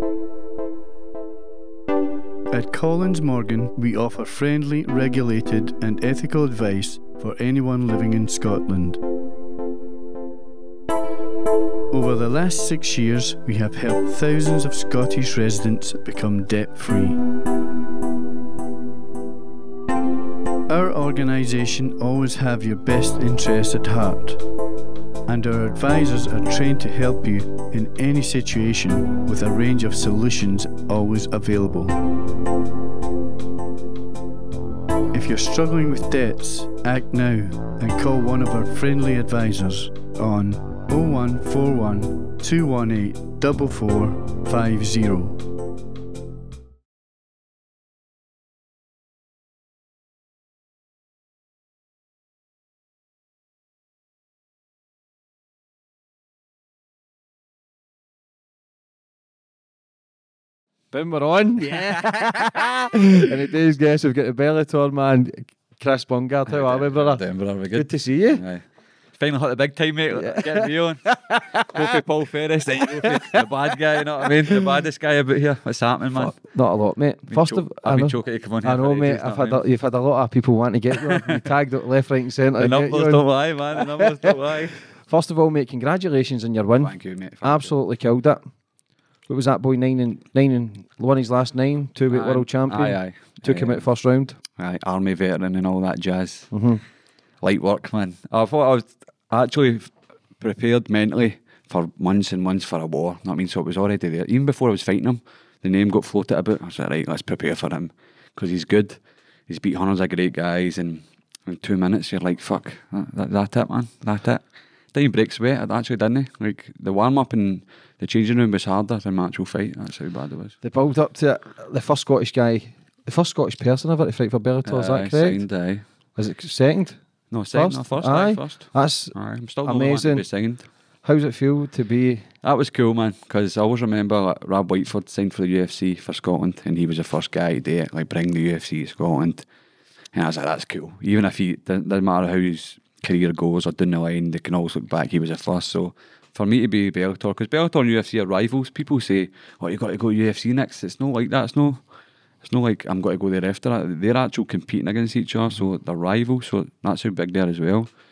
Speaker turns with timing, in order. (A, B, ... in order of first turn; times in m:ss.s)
0:02.5-0:09.0 A
0:11.9-0:17.3 A
0:20.7-0:24.5 A
0:25.2-0:32.0 A
0:35.1-0:45.5 A
1:00.9-1:02.4 B
1:01.6-1:03.0 C
1:03.2-1:08.4 B
1:06.5-1:16.4 C
1:10.1-1:11.8 B
1:12.8-1:13.4 B
1:16.1-1:23.2 B
1:17.3-1:19.6 C
1:21.0-1:21.4 C
1:22.6-1:24.8 C
1:23.8-1:24.3 B
1:25.0-1:28.4 B
1:26.8-1:27.7 C
1:29.3-1:34.4 B
1:32.1-1:33.9 C
1:34.6-1:36.5 C
1:36.5-1:36.8 B
1:37.4-2:00.6 C
2:00.6-2:05.4 B
2:04.6-2:05.8 C
2:06.2-2:10.2 B
2:07.3-2:10.7 C
2:11.0-2:12.3 B
2:12.4-2:19.4 C
2:20.1-2:31.8 C
2:32.4-2:37.9 C